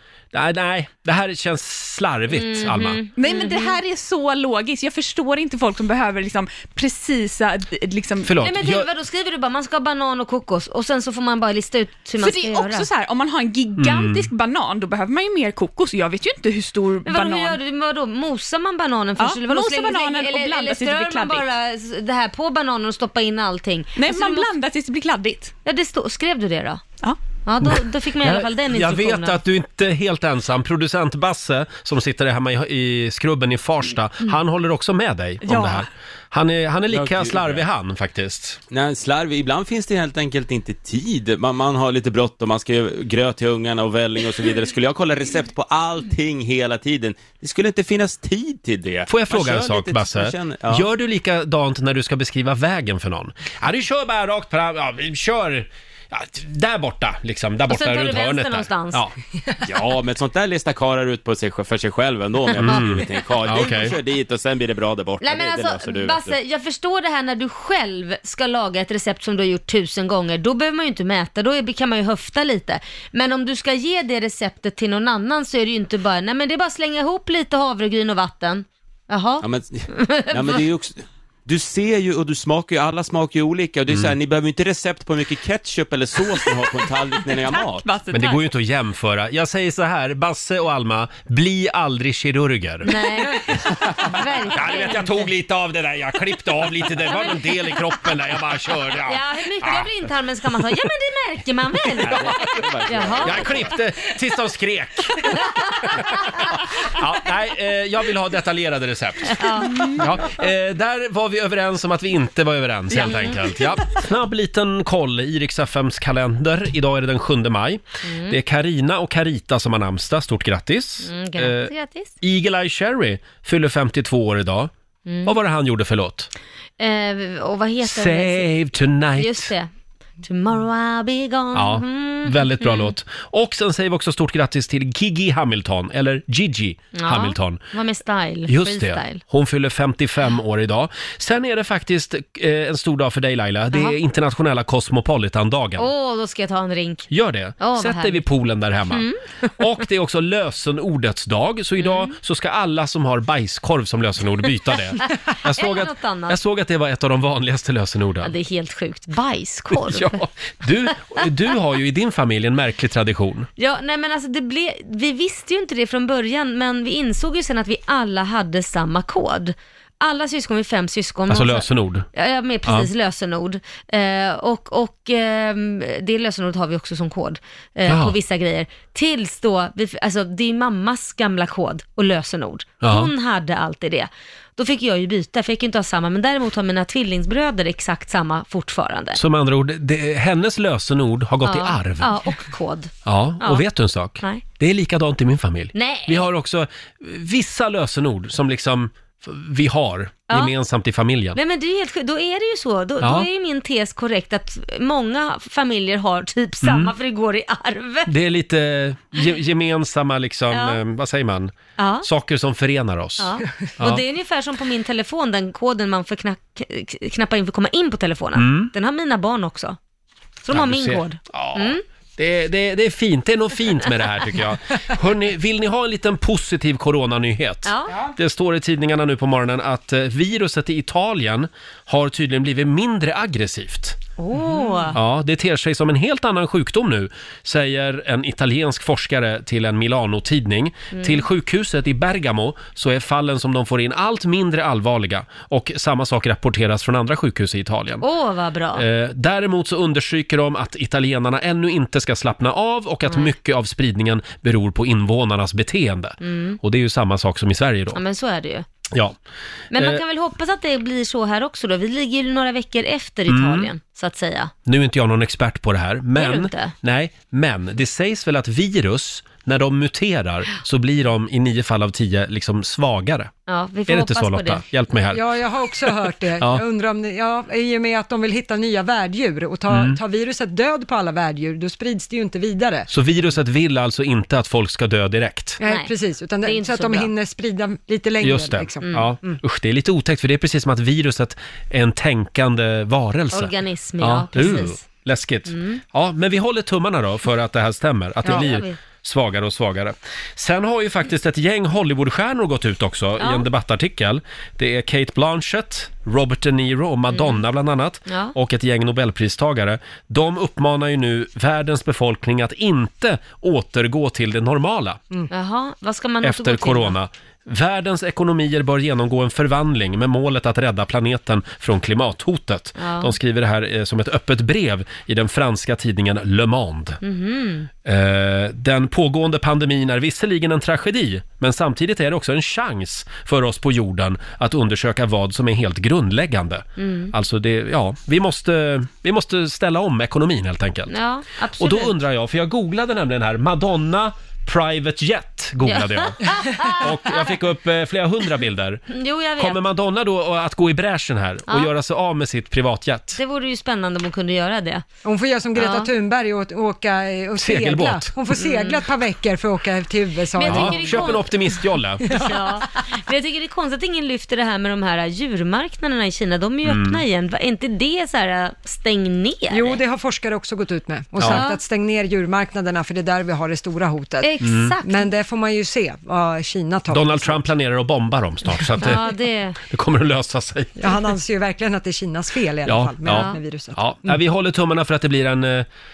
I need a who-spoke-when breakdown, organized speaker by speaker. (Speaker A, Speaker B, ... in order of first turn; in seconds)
Speaker A: 0.3-3.0, 8.2-8.9, 13.8-14.3, 27.6-38.6, 49.1-59.1, 62.5-64.0, 83.9-84.2, 88.1-99.9, 102.0-124.7, 125.2-126.3, 127.8-129.5, 131.5-137.6, 138.5-145.9, 147.1-149.1, 149.6-158.3, 159.7-163.5, 171.3-172.1, 177.9-178.1, 182.8-183.1, 189.2-192.1, 193.1-201.4, 203.0-203.3, 206.6-206.9, 208.1-214.0, 218.4-218.7, 220.5-234.0, 234.9-248.1, 248.8-258.0, 259.8-260.0, 263.3-263.7, 264.7-273.3, 273.9-275.2, 279.7-280.0, 282.9-285.6, 288.2-315.0, 316.2-327.0, 327.8-340.9, 341.6-353.2, 357.4-358.1, 360.5-362.1, 366.6-367.0, 371.2-371.4, 374.4-374.8, 376.9-379.1, 379.6-380.8, 382.7-385.7
Speaker B: 2.3-3.8, 8.4-12.9, 17.1-24.5, 25.6-26.8, 27.5-29.4, 57.7-59.0, 62.6-63.0, 65.2-80.6, 92.8-95.3, 99.1-103.7, 109.4-110.0, 118.1-118.4, 121.1-122.1, 125.1-125.3, 126.8-128.5, 129.2-129.7, 130.2-132.9, 136.9-139.2, 145.8-147.1, 147.6-148.3, 148.9-149.5, 151.8-152.1, 155.0-156.4, 158.2-160.2, 163.6-189.2, 191.4-193.6, 195.7-196.3, 201.3-208.1, 210.5-210.8, 211.8-212.1, 213.2-219.8, 220.4-221.8, 227.7-228.0, 234.2-234.9, 240.9-241.2, 248.0-248.9, 253.1-253.3, 256.2-256.6, 257.9-258.7, 259.7-264.5, 266.2-266.7, 273.5-274.6, 285.6-287.1, 293.3-294.9, 295.5-295.8, 298.3-298.8, 303.2-303.5, 307.1-307.4, 308.1-308.4, 315.3-317.0, 322.8-323.1, 327.0-327.7, 336.8-337.1, 340.9-341.9, 345.7-347.3, 348.9-349.6, 353.2-354.8, 355.6-355.9, 358.3-358.8, 360.4-361.2, 362.1-369.8, 371.3-371.6, 374.2-375.1, 378.8-379.6, 383.1-383.4
Speaker C: 3.2-8.3, 12.2-17.6, 19.2-21.5, 24.0-25.5, 35.4-35.9, 87.2-88.4, 109.7-110.0, 113.0-113.5
Speaker D: 36.9-37.6, 38.7-50.9, 59.7-66.3, 79.4-87.9, 102.0-103.8
Speaker E: 234.3-234.9, 275.1-282.9, 285.6-289.4, 355.1-361.2, 362.1-362.7, 369.5-374.3, 374.8-377.4, 380.8-384.2